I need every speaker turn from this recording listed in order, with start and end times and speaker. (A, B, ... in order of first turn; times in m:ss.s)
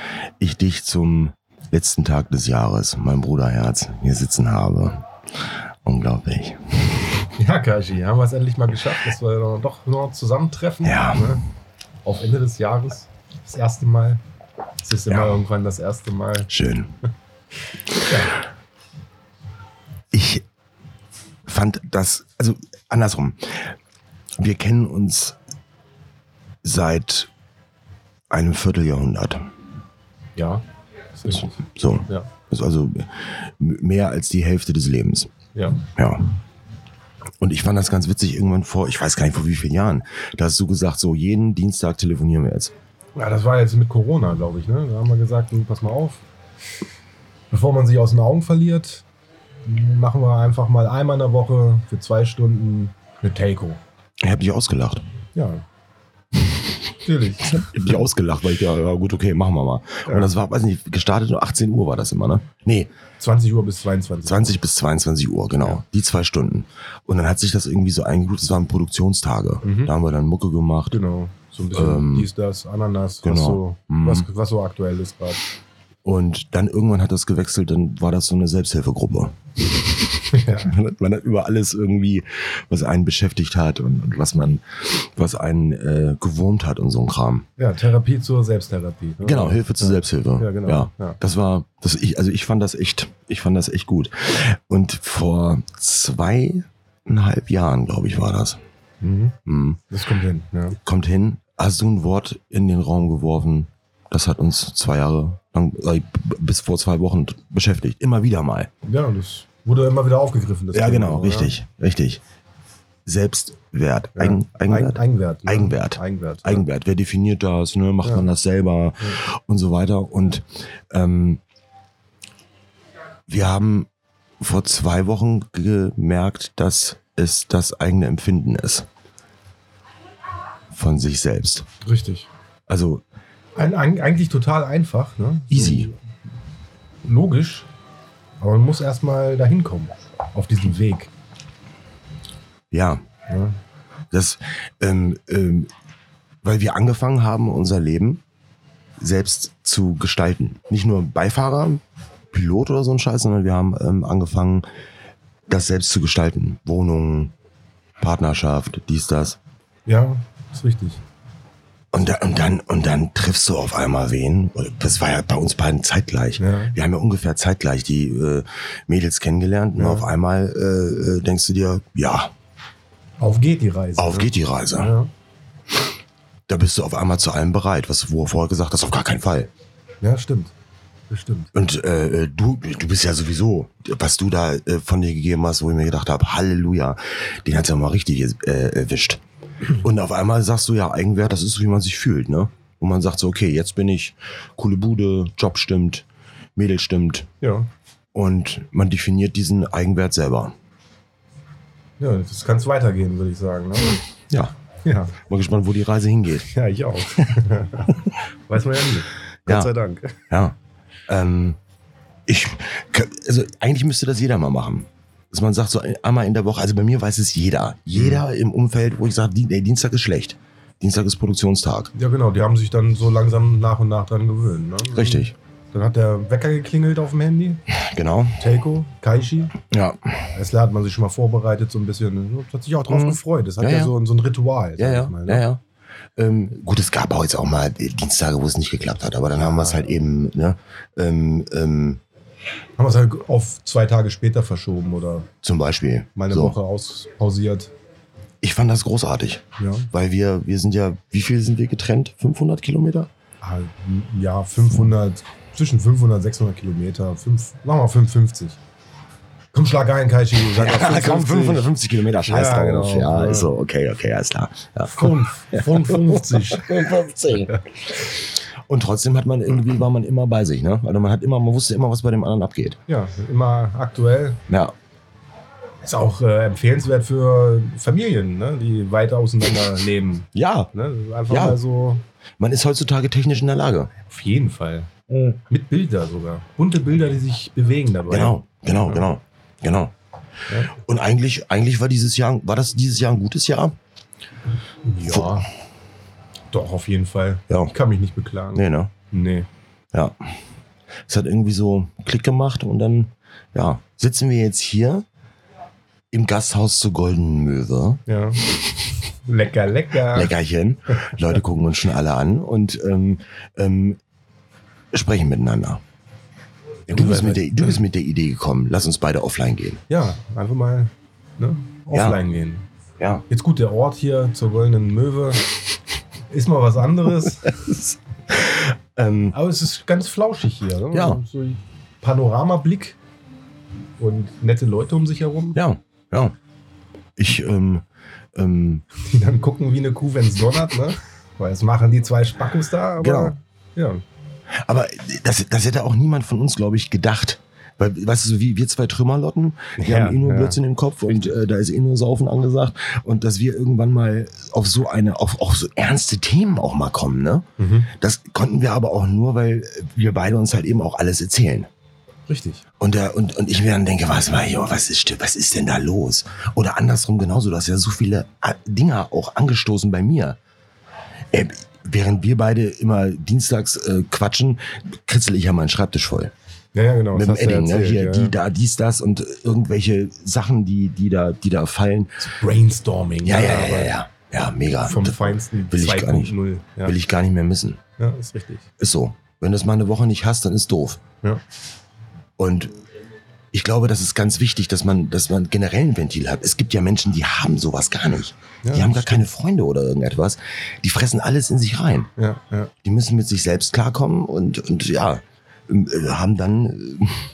0:00.4-0:05.0 A
0:05.8-0:07.0 A
0:07.4-0:11.4 B
0:10.8-0:11.4 A
0:12.0-0:14.2 B
0:14.8-0:16.5 B
0:15.1-0:15.4 A
0:16.5-0:16.9 A
0:18.0-0:18.4 B
0:20.1-0:20.4 A
0:21.5-0:23.7 A
0:24.4-0:25.4 A
0:26.6-0:27.3 A
0:28.3-0:29.4 A
0:30.4-0:31.6 B
0:31.3-0:35.3 A
0:35.5-0:35.8 B
0:36.0-0:36.2 A
0:37.4-0:42.7 A
0:43.1-0:46.2 B
0:47.5-0:49.0 B
0:49.6-0:53.8 B
0:54.2-0:55.0 A
0:55.3-0:55.6 B
0:57.0-0:57.7 B
0:57.4-1:02.9 A
1:03.2-1:04.6 B
1:04.2-1:11.0 A
1:09.6-1:09.9 B
1:10.9-1:15.4 B
1:11.7-1:12.3 A
1:13.2-1:14.3 A
1:16.0-1:19.3 A
1:20.3-1:20.7 B
1:20.6-1:27.4 A
1:27.6-1:31.2 B
1:29.2-1:38.6 A
1:39.0-1:39.4 B
1:39.4-1:39.8 A
1:39.9-1:40.8 B
1:40.8-1:48.7 A
1:48.8-1:51.5 B
1:50.7-1:52.2 A
1:53.0-2:01.4 A
1:54.2-1:56.6 B
1:58.0-1:58.3 B
2:03.3-2:03.9 A
2:04.4-2:08.9 A
2:10.7-2:11.7 A
2:11.8-2:12.3 B
2:12.7-2:13.0 A
2:13.6-2:16.0 B
2:15.5-2:15.9 A
2:17.0-2:17.7 B
2:18.4-2:21.1 B
2:22.7-2:23.0 A
2:23.3-2:23.6 B
2:24.1-2:25.7 A
2:26.4-2:28.2 A
2:29.0-2:34.7 A
2:35.5-2:37.3 A
2:38.0-2:39.4 A
2:39.8-2:41.0 B
2:41.9-2:52.3 A
2:46.4-2:46.8 B
2:49.8-2:50.1 B
2:53.2-2:55.1 B
2:54.0-2:54.9 A
2:56.5-2:59.5 A
3:00.0-3:00.5 B
3:01.1-3:01.5 B
3:01.5-3:09.2 A
3:09.7-3:17.3 A
3:17.4-3:17.7 B
3:18.1-3:20.5 A
3:22.0-3:24.0 B
3:24.8-3:25.2 B
3:25.3-3:26.5 A
3:26.5-3:30.2 B
3:30.3-3:30.6 A
3:31.1-3:31.6 A
3:32.3-3:41.9 A
3:37.9-3:38.2 B
3:41.9-3:47.6 B
3:44.9-3:45.3 A
3:47.7-3:48.4 A
3:48.4-3:49.6 B
3:49.7-3:50.1 A
3:50.3-3:55.4 B
3:52.9-3:53.9 A
3:54.8-3:55.6 A
3:56.2-4:02.0 A
3:59.3-3:59.8 B
4:02.8-4:05.3 B
4:05.4-4:06.6 A
4:06.2-4:07.7 B
4:08.4-4:13.1 A
4:09.6-4:09.9 B
4:13.4-4:18.6 B
4:19.5-4:21.7 B
4:20.5-4:27.6 A
4:22.2-4:23.5 B
4:24.8-4:27.6 B
4:28.6-4:32.8 A
4:32.9-4:34.4 B
4:34.5-4:34.7 A
4:35.8-4:42.0 B
4:40.3-4:40.7 A
4:41.3-4:41.6 A
4:42.4-4:43.9 A
4:44.1-4:44.9 B
4:45.1-4:45.4 A
4:45.5-4:49.2 B
4:48.1-4:49.9 A
4:50.5-4:50.7 B
4:50.7-4:53.7 A
4:54.8-4:55.5 B
4:56.5-4:59.5 B
4:58.5-4:58.9 A
5:01.1-5:05.0 A
5:06.1-5:08.0 A
5:08.1-5:08.6 B
5:09.2-5:10.3 B
5:10.1-5:14.0 A
5:10.9-5:11.2 B
5:14.9-5:15.8 A
5:16.9-5:17.8 B
5:16.9-5:19.8 A
5:19.9-5:22.7 B
5:21.9-5:22.2 A
5:23.0-5:23.2 A
5:23.3-5:25.4 B
5:26.3-5:27.8 B
5:28.3-5:29.4 A
5:29.3-5:33.0 B
5:30.9-5:31.2 A
5:34.0-5:35.6 B
5:35.5-5:36.3 A
5:37.2-5:37.8 A
5:38.3-5:38.8 A
5:39.0-5:44.0 B
5:43.0-5:43.3 A
5:44.6-5:57.4 A
5:49.8-5:50.6 B
5:57.6-5:57.9 B
5:58.0-6:01.7 A
6:02.3-6:02.6 B
6:02.8-6:10.4 A
6:11.3-6:16.3 A
6:16.7-6:18.4 B
6:17.1-6:22.2 A
6:22.2-6:24.0 B
6:23.2-6:27.8 A
6:24.8-6:26.9 B
6:28.0-6:28.6 B
6:28.8-6:31.0 A
6:32.4-6:32.7 A
6:33.5-6:42.1 A
6:38.6-6:39.3 B
6:42.2-6:42.7 B
6:42.8-6:47.2 A